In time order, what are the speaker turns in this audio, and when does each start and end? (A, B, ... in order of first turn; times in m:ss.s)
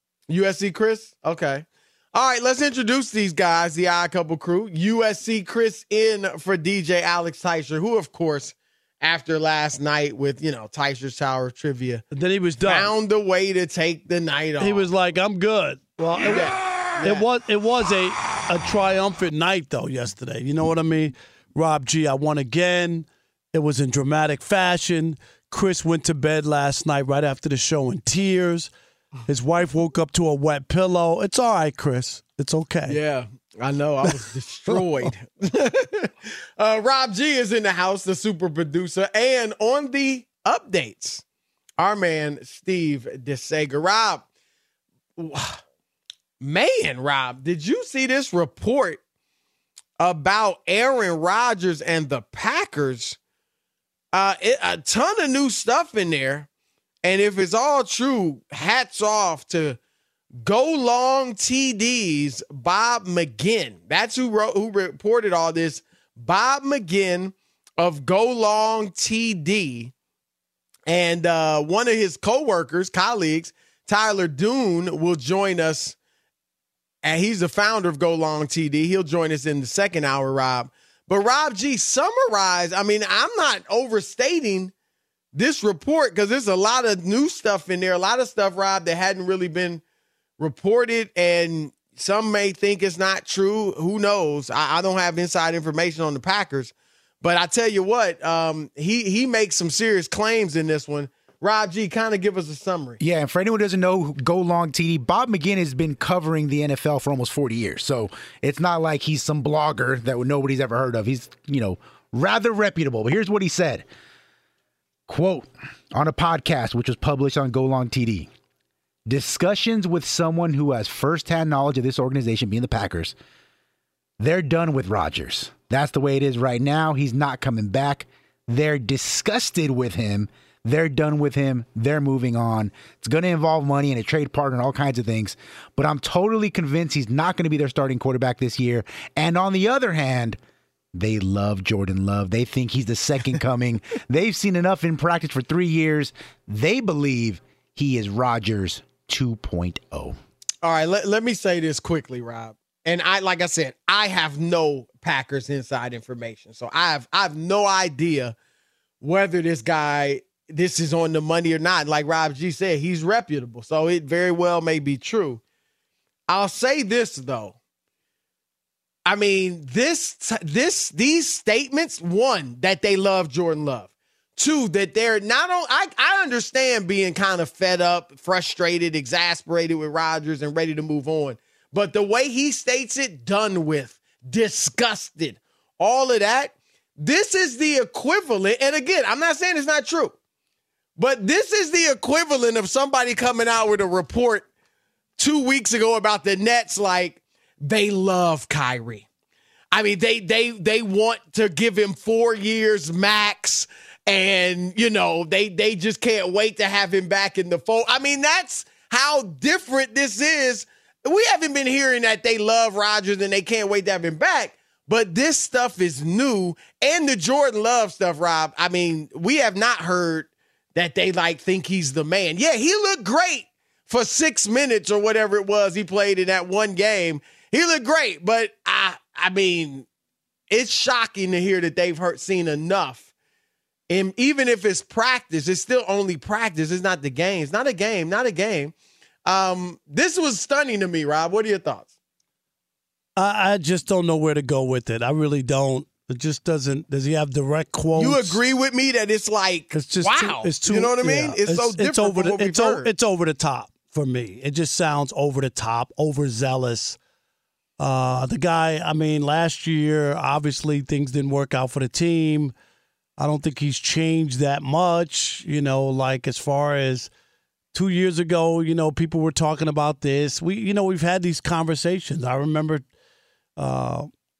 0:00.3-0:12.0 A
0:12.1-0:12.9 B
0:12.6-0:14.9 A
0:14.6-0:28.7 B
0:16.2-0:17.2 A
0:29.3-0:33.0 B
0:32.9-0:41.2 A
0:34.7-0:35.1 B
0:41.8-0:44.2 A
0:45.2-0:45.6 A
0:46.4-0:49.0 A
0:50.0-0:53.2 A
0:54.1-0:56.5 A
0:57.0-0:59.8 A
1:00.3-1:09.9 A
1:10.9-1:16.0 A
1:17.0-1:24.7 A
1:25.3-1:29.8 A
1:30.4-1:43.0 A
1:43.0-1:53.8 C
1:55.1-1:58.3 C
1:59.0-2:03.1 C
2:04.2-2:20.4 C
2:20.9-2:30.2 C
2:30.6-2:38.4 A
2:39.0-2:45.4 A
2:46.3-2:47.6 A
2:49.0-3:10.2 A
3:11.0-3:14.5 A
3:15.2-3:19.0 A
3:19.7-3:49.8 A
3:50.5-3:53.0 A
3:53.9-3:58.7 A
3:59.2-4:01.9 A
4:03.2-4:08.4 B
4:08.0-4:12.9 A
4:09.7-4:17.0 B
4:17.8-4:22.5 B
4:23.2-4:27.1 B
4:27.7-4:32.8 B
4:33.6-4:34.1 B